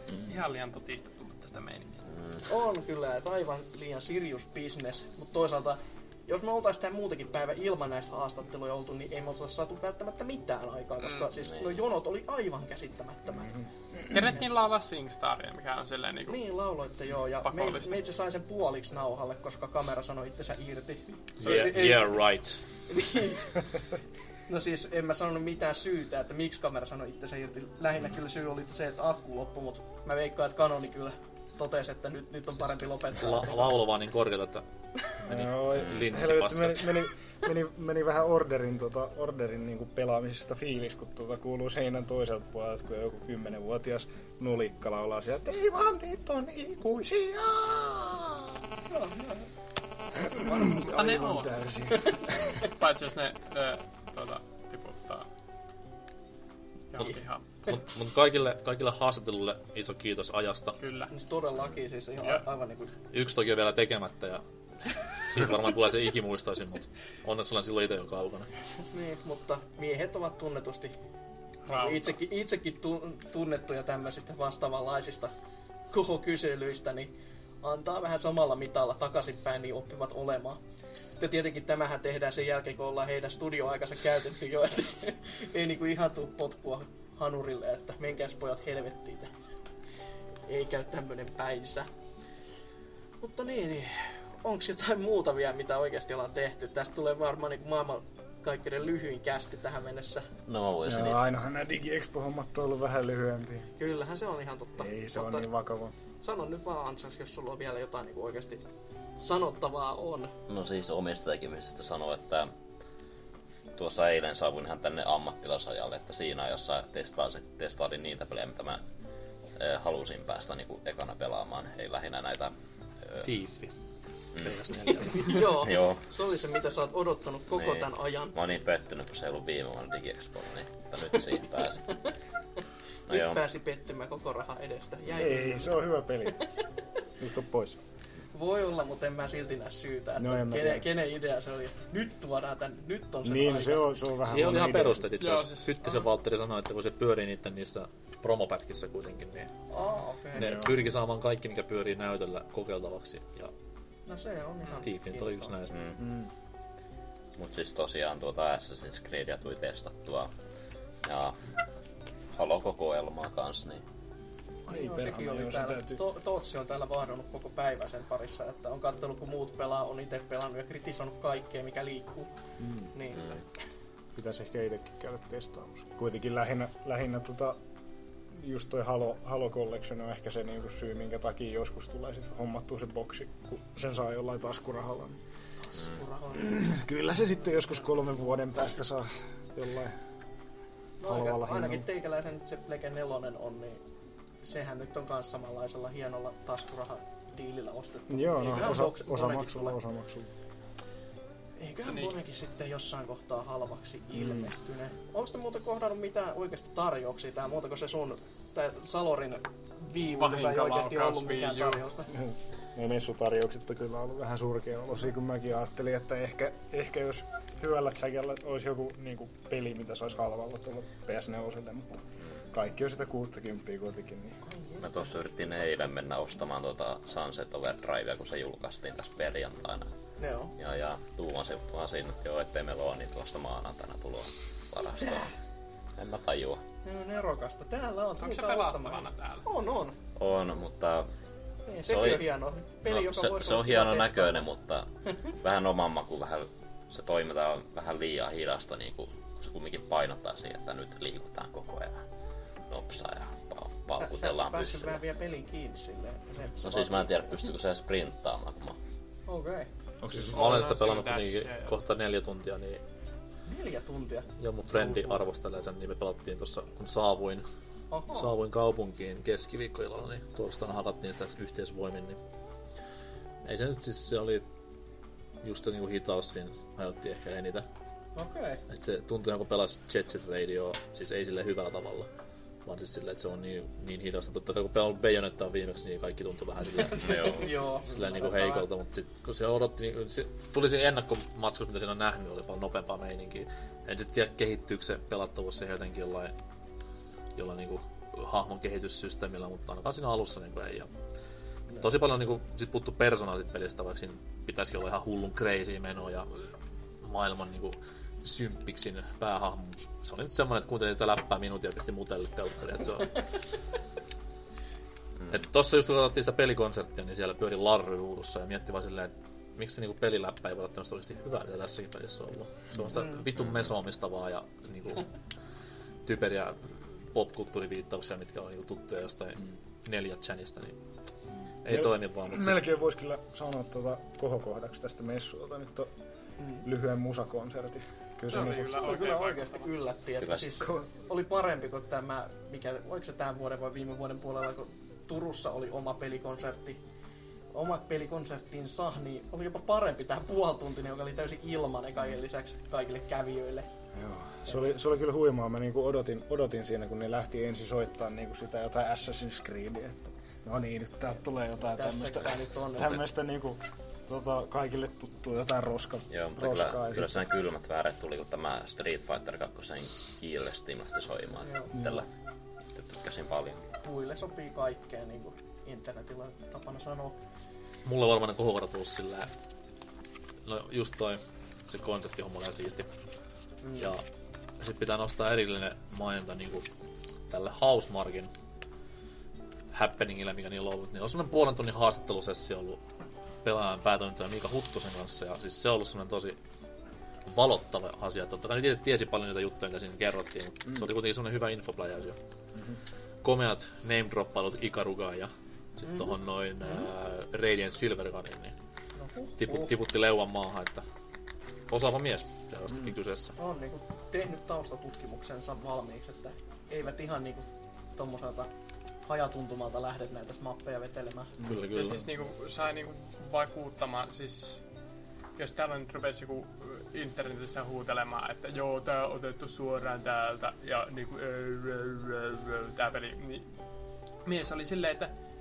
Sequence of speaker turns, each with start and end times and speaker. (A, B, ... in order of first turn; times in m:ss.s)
0:00.2-0:02.1 A
0:02.1-0:02.4 B
0:02.5-0:13.5 C
0:11.0-0:11.3 A
0:11.4-0:11.8 B
0:13.4-0:14.2 D
0:14.1-0:16.4 A
0:16.3-0:22.2 C
0:17.4-0:18.0 A
0:21.4-0:22.6 E
0:22.9-0:23.8 C
0:24.5-0:33.8 C
0:33.1-0:34.6 E
0:35.2-0:37.0 E
0:35.2-0:48.6 D
0:48.9-0:49.5 C
0:50.1-0:51.2 C
0:50.4-0:52.6 D
0:50.9-0:51.5 A
0:51.9-0:52.5 C
0:52.6-0:55.3 A
0:56.9-0:57.4 A
0:57.7-1:00.8 E
1:00.8-1:01.1 A
1:01.1-1:02.9 C
1:03.1-1:08.5 E
1:08.9-1:11.0 C
1:11.7-1:12.1 A
1:11.7-1:15.3 C
1:15.9-1:20.6 C
1:21.2-1:29.3 C
1:30.5-1:31.9 C
1:33.2-1:40.3 C
1:40.5-1:41.2 B
1:40.8-1:43.7 D
1:43.8-1:45.5 C
1:44.8-1:45.9 D
1:46.2-1:48.6 C
1:49.2-1:50.3 C
1:50.5-1:52.5 B
1:53.8-1:58.8 B
1:59.6-2:02.6 B
2:03.2-2:03.7 E
2:04.3-2:06.0 B
2:04.4-2:05.5 E
2:05.2-2:08.4 C
2:07.5-2:12.0 B
2:13.1-2:13.4 B
2:13.1-2:15.8 C
2:15.1-2:16.5 D
2:17.2-2:17.8 D
2:18.3-2:23.9 C
2:20.2-2:20.9 D
2:23.2-2:25.0 D
2:24.2-2:29.5 E
2:25.2-2:26.0 A
2:29.7-2:30.6 C
2:30.4-2:33.5 E
2:30.4-2:30.7 D
2:34.1-2:35.6 C
2:34.8-2:36.0 E
2:35.7-2:36.1 B
2:36.0-2:36.3 D
2:37.4-2:40.3 B
2:41.0-2:41.4 B
2:42.3-2:43.8 B
2:44.7-2:46.0 D
2:44.7-2:52.3 C
2:52.6-2:52.9 D
2:52.9-2:53.4 C
2:53.1-2:53.4 B
2:54.1-2:57.6 D
2:58.3-3:05.2 D
3:05.7-3:06.7 C
3:06.3-3:10.0 D
3:11.0-3:13.8 C
3:11.0-3:11.8 D
3:14.4-3:19.8 C
3:18.1-3:20.3 D
3:21.6-3:32.2 C
3:21.9-3:22.2 A
3:24.2-3:24.5 D
3:30.0-3:31.9 A
3:32.1-3:44.4 D
3:44.5-3:45.2 C
3:44.8-3:49.9 B
3:50.2-3:50.6 C
3:50.6-3:55.3 B
3:55.0-3:55.3 C
3:56.0-3:56.6 B
3:56.8-4:00.0 C
3:58.2-3:59.5 A
4:00.2-4:01.1 B
4:01.7-4:04.5 C
4:01.8-4:02.3 B
4:02.9-4:12.0 B
4:12.7-4:15.0 B
4:14.0-4:17.5 C
4:16.6-4:18.8 B
4:19.3-4:19.7 C
4:20.0-4:20.6 D
4:20.1-4:22.8 E
4:20.3-4:21.8 A
4:23.4-4:25.2 C
4:24.4-4:27.4 E
4:27.9-4:28.3 C
4:28.1-4:32.2 E
4:33.4-4:34.4 E
4:35.4-4:37.7 E
4:38.2-4:38.6 C
4:38.7-4:42.1 E
4:42.6-4:56.3 E
4:46.9-4:48.7 C
4:47.0-4:47.5 B
4:57.4-5:00.9 E
5:01.8-5:13.3 E
5:15.3-5:25.1 E
5:22.9-5:23.3 C
5:23.4-5:23.7 B
5:26.0-5:30.8 E
5:31.5-5:35.9 D
5:31.6-5:32.6 E
5:36.4-5:36.6 C
5:36.6-5:38.9 D
5:38.3-5:39.7 A
5:38.8-5:46.8 C
5:40.2-5:40.6 B
5:40.6-5:40.9 D
5:47.5-5:53.7 C
5:53.9-6:07.2 D
6:01.6-6:03.0 C
6:06.1-6:12.1 B
6:11.4-6:11.7 C
6:11.7-6:12.0 D
6:12.7-6:13.6 B
6:13.8-6:17.2 C
6:17.8-6:19.3 E
6:20.4-6:22.9 E
6:23.6-6:24.0 C
6:24.6-6:26.7 E
6:27.3-6:28.3 E
6:29.7-6:32.8 E
6:33.4-6:36.4 E
6:37.3-6:42.2 E
6:43.2-6:48.6 E
6:45.9-6:46.1 C
6:49.0-6:49.7 C
6:49.4-6:50.8 E
6:51.7-6:53.4 E
6:53.4-6:58.5 C
6:59.1-7:01.5 C
7:01.4-7:02.0 E
7:01.6-7:04.6 A
7:05.4-7:13.5 A
7:14.2-7:15.1 A